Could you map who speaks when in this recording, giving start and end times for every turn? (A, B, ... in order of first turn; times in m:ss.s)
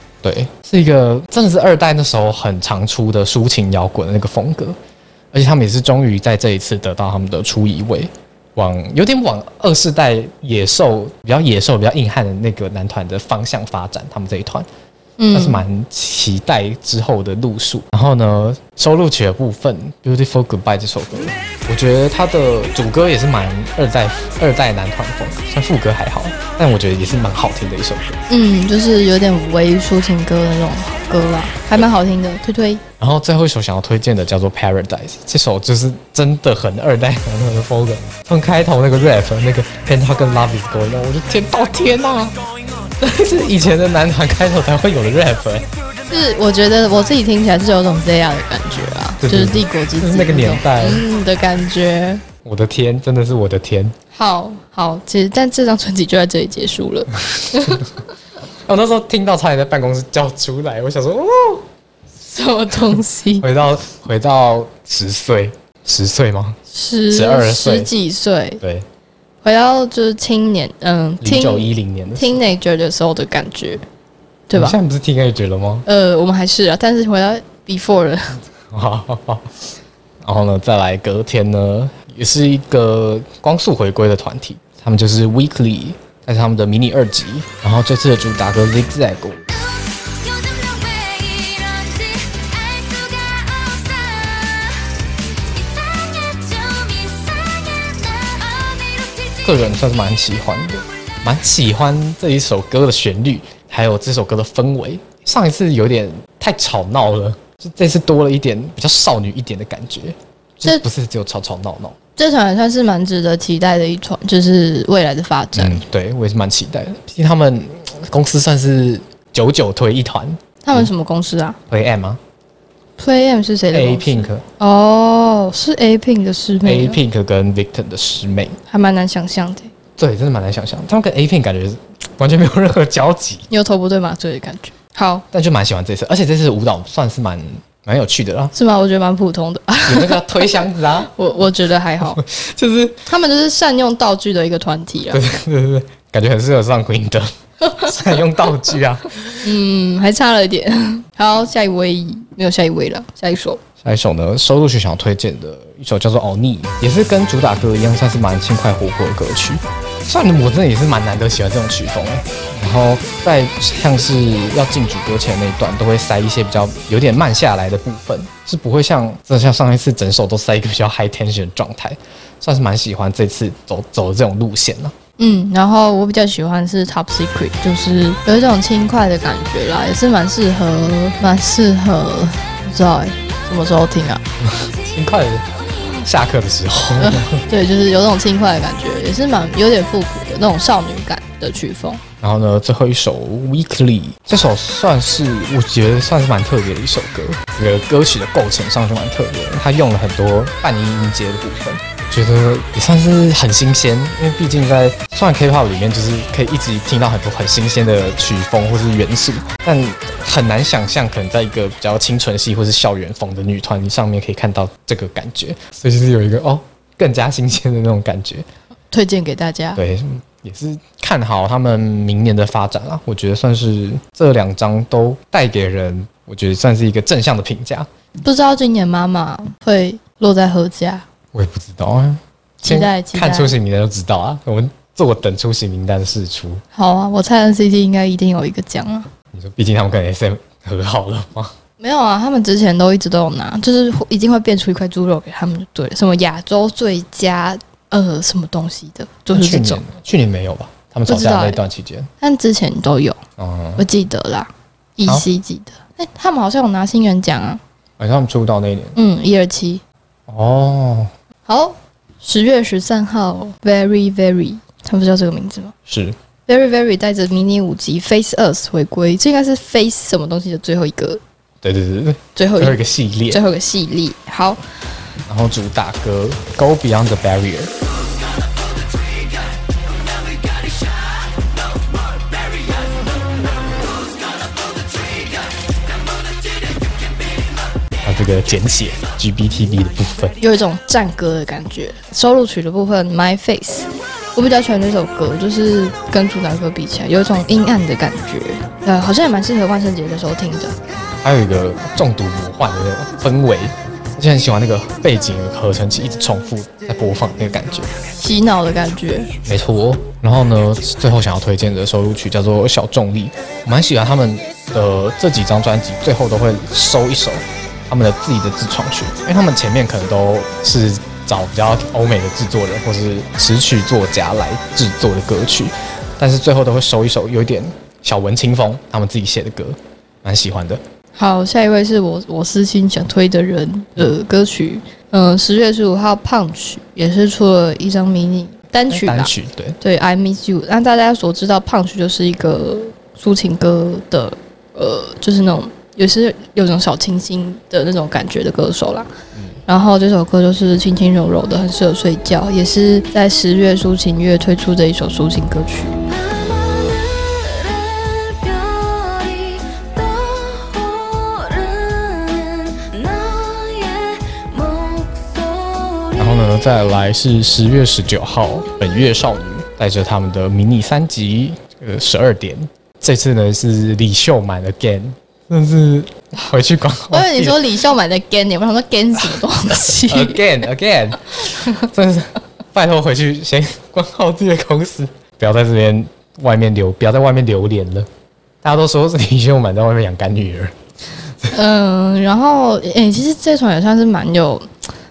0:00.2-0:04.8 A
0:05.3-0:14.7 A
0:15.2-0:15.6 B
0:15.3-0:28.2 A
0:28.3-0:32.8 B
0:33.0-0:42.4 A
0:43.0-0:45.7 A
0:46.1-0:52.2 B
0:49.2-0:51.0 A
0:52.4-0:53.9 A
0:54.1-0:57.9 B
0:57.3-0:57.9 A
0:58.6-1:01.7 A
1:02.2-1:03.4 B
1:03.4-1:06.6 A
1:06.7-1:08.6 B
1:07.1-1:07.9 A
1:08.6-1:08.8 A
1:09.4-1:13.8 B
1:11.2-1:12.4 A
1:14.5-1:14.8 B
1:14.5-1:15.8 A
1:15.9-1:18.4 B
1:18.7-1:19.5 A
1:20.2-1:29.5 A
1:29.5-1:39.5 C
1:39.4-1:52.0 A
1:52.2-1:55.8 B
1:55.5-2:00.9 A
2:00.6-2:01.6 B
2:01.7-2:02.2 A
2:03.0-2:07.0 B
2:03.7-2:04.4 A
2:06.6-2:08.6 A
2:08.7-2:09.7 B
2:10.0-2:13.5 A
2:13.5-2:15.2 B
2:15.3-2:18.5 A
2:18.5-2:22.2 B
2:19.8-2:21.1 A
2:22.0-2:23.1 A
2:23.1-2:25.3 B
2:25.1-2:29.5 A
2:27.6-2:27.9 B
2:29.4-2:33.6 B
2:33.8-2:54.9 A
2:55.2-3:04.2 B
3:04.4-3:05.4 A
3:06.0-3:07.4 A
3:07.0-3:12.0 B
3:12.2-3:38.4 A
3:38.9-3:39.8 B
3:39.8-3:47.9 A
3:48.2-3:51.0 B
3:51.3-3:56.6 A
3:52.6-3:53.5 B
3:56.7-3:59.1 B
3:59.3-4:01.5 A
4:01.8-4:09.8 B
4:09.3-4:12.1 A
4:11.1-4:11.6 B
4:12.2-4:13.2 B
4:13.4-4:13.8 A
4:13.8-4:17.6 B
4:18.0-4:19.0 A
4:19.0-4:19.8 B
4:20.3-4:21.1 A
4:21.4-4:25.7 B
4:25.9-4:26.2 A
4:26.5-4:31.2 B
4:31.6-4:33.4 A
4:32.4-4:34.6 B
4:35.3-4:37.7 A
4:48.0-4:50.4 A
4:50.4-5:00.7 B
5:01.1-5:07.9 A
5:08.2-5:09.3 B
5:09.4-5:30.8 A
5:31.2-5:49.1 B
5:38.9-5:39.8 A
5:49.7-5:56.0 B
5:56.1-6:06.6 C
6:06.2-6:17.6 A
6:17.1-6:20.4 B
6:19.9-6:28.1 A
6:28.6-6:30.7 A
6:31.3-6:31.5 A
6:31.5-6:34.7 B